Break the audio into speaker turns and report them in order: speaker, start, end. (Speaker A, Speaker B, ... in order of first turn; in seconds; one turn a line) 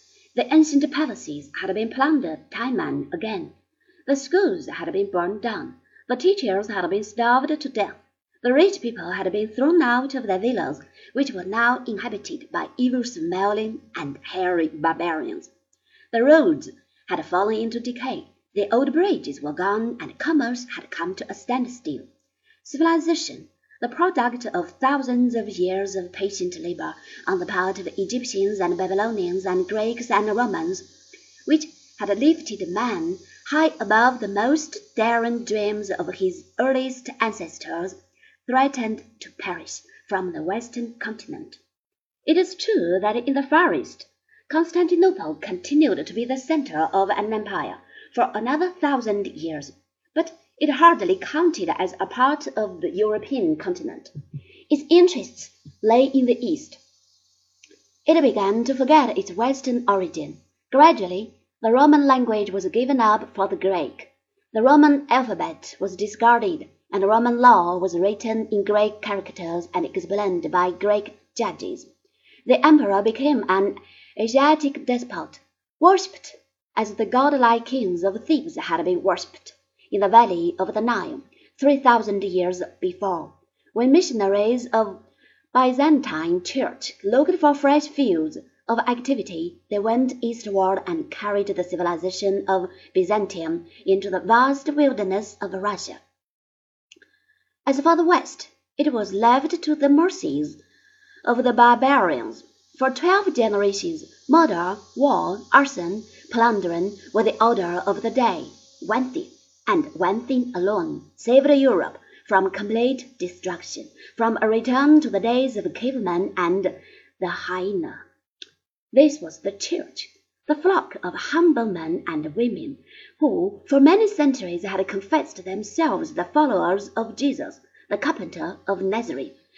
Speaker A: 0.3-3.5
Speaker A: 4.1-15.5
Speaker A: 16.1-22.1
Speaker A: 22.6-30.9
Speaker A: 31.4-37.9
Speaker A: 38.5-41.6
Speaker A: 42.2-54.1
Speaker A: 54.7-56.8
Speaker A: 58.0-71.9
Speaker A: 72.5-85.0
Speaker A: 85.5-96.0
Speaker A: 97.7-100.6
Speaker A: 101.2-118.0
Speaker A: 118.9-129.3